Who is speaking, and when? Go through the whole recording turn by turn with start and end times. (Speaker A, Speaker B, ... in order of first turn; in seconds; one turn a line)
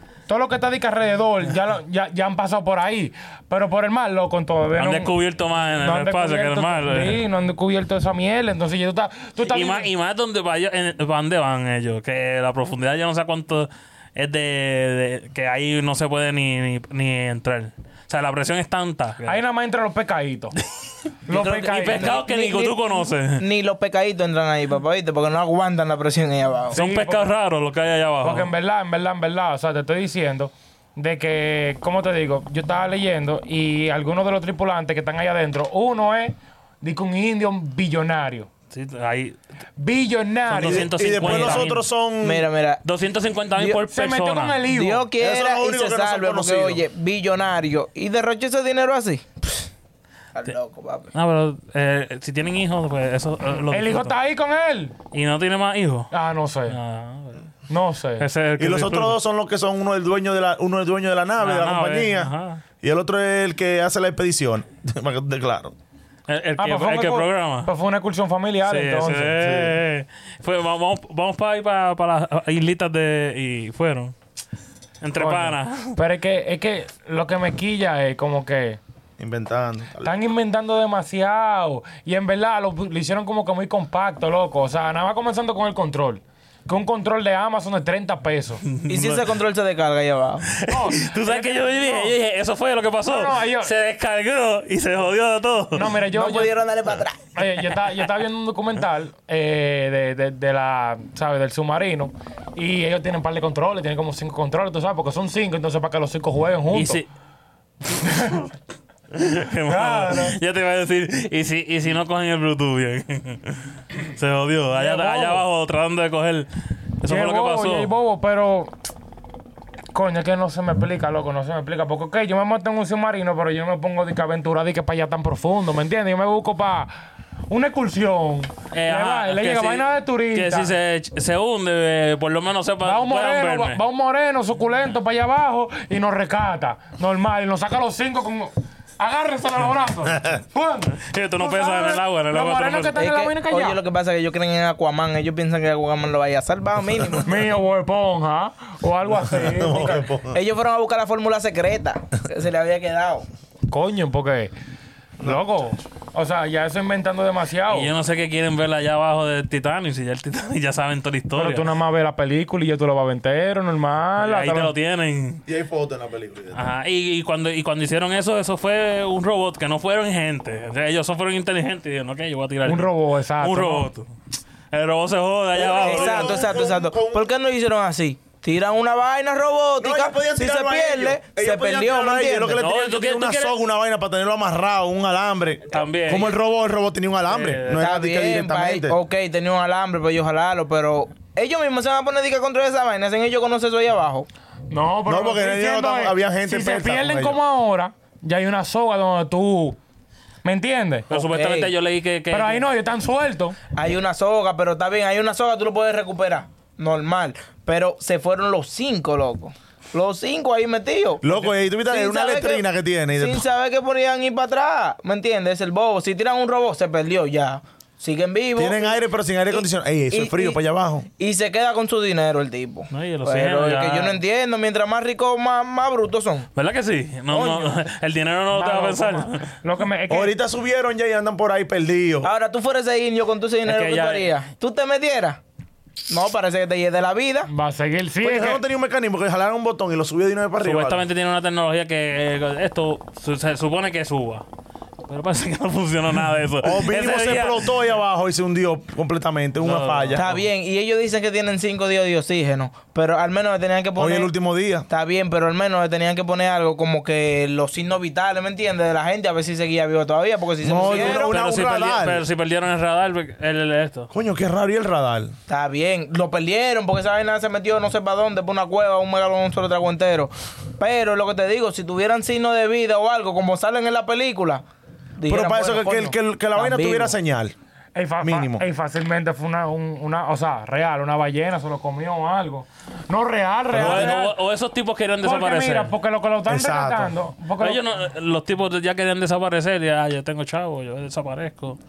Speaker A: 0.3-5.1
Speaker B: 4.8-7.2
Speaker A: 5.8-9.9
Speaker B: 9.5-19.4
Speaker A: 19.2-20.6
Speaker A: 21.3-22.1
Speaker C: 21.3-26.8
Speaker B: 21.6-23.4
Speaker A: 26.7-27.3
Speaker B: 26.7-28.5
Speaker A: 28.2-38.5
Speaker B: 38.7-39.4
Speaker A: 39.8-41.5
Speaker B: 40.5-41.8
Speaker D: 40.5-42.5
Speaker C: 42.2-42.8
Speaker B: 42.9-44.7
Speaker C: 43.6-43.8
Speaker A: 43.9-45.1
Speaker C: 44.7-49.7
Speaker D: 45.2-46.8
Speaker C: 50.4-51.1
Speaker B: 51.1-54.1
Speaker A: 53.7-55.0
Speaker B: 55.1-56.1
Speaker A: 56.1-56.8
Speaker B: 56.7-57.4
Speaker A: 57.7-58.3
Speaker B: 58.2-59.2
Speaker D: 58.6-65.8
Speaker B: 61.4-62.6
Speaker B: 66.3-67.7
Speaker A: 66.6-69.4
Speaker B: 68.7-74.2
Speaker D: 69.4-69.7
Speaker B: 75.0-76.0
Speaker A: 75.2-78.8
Speaker D: 79.2-80.2
Speaker A: 80.0-88.6
Speaker B: 88.7-89.4
Speaker C: 88.9-90.5
Speaker B: 90.5-96.0
Speaker A: 90.6-92.2
Speaker A: 93.1-93.7
Speaker A: 95.7-96.6
Speaker C: 96.1-97.2
Speaker A: 97.3-107.0
Speaker B: 106.7-107.1
Speaker A: 108.0-108.4
Speaker B: 109.1-116.5
Speaker A: 109.7-110.4
Speaker A: 114.7-115.4
Speaker B: 117.0-117.9
Speaker A: 117.1-118.7
Speaker A: 119.9-126.9
Speaker A: 127.5-130.7
Speaker B: 128.7-133.8
Speaker A: 132.8-143.8
Speaker B: 141.0-143.0
Speaker C: 143.0-147.3
Speaker A: 147.2-150.1
Speaker D: 149.4-150.4
Speaker C: 150.3-153.3
Speaker A: 153.7-154.5
Speaker A: 155.2-157.9
Speaker B: 157.7-161.7
Speaker A: 161.4-164.7
Speaker B: 164.2-165.4
Speaker D: 165.5-166.7
Speaker B: 166.5-174.1
Speaker A: 172.7-173.9
Speaker B: 174.7-176.5
Speaker D: 175.6-177.3
Speaker C: 175.6-182.6
Speaker D: 179.8-189.0
Speaker B: 182.6-183.6
Speaker B: 185.7-186.3
Speaker B: 187.3-187.9
Speaker C: 187.8-194.3
Speaker A: 194.7-199.8
Speaker D: 195.1-197.4
Speaker A: 200.4-201.1
Speaker C: 201.1-201.7
Speaker B: 201.1-202.7
Speaker A: 202.3-203.6
Speaker C: 203.7-212.6
Speaker D: 211.2-213.4
Speaker C: 213.2-219.0
Speaker D: 218.6-221.1
Speaker C: 219.5-220.6
Speaker C: 221.2-226.5
Speaker B: 222.9-224.2
Speaker B: 226.6-229.5
Speaker C: 227.3-227.8
Speaker A: 228.5-230.3
Speaker D: 230.1-232.3
Speaker C: 232.2-235.4
Speaker B: 233.7-234.3
Speaker C: 236.1-237.5
Speaker A: 237.5-238.6
Speaker D: 238.2-241.1
Speaker B: 240.6-244.5
Speaker B: 245.1-247.7
Speaker D: 246.6-250.3
Speaker B: 249.6-250.4
Speaker C: 250.2-254.3
Speaker D: 254.0-254.9
Speaker C: 254.9-261.4
Speaker D: 260.6-262.2
Speaker B: 260.8-264.1
Speaker D: 264.1-265.4
Speaker C: 265.5-274.6
Speaker C: 275.2-277.1
Speaker D: 275.2-277.6
Speaker A: 277.9-284.4
Speaker D: 278.2-278.6
Speaker B: 283.7-285.9
Speaker D: 283.7-284.1
Speaker A: 285.2-287.8
Speaker D: 286.5-287.1
Speaker B: 287.6-291.8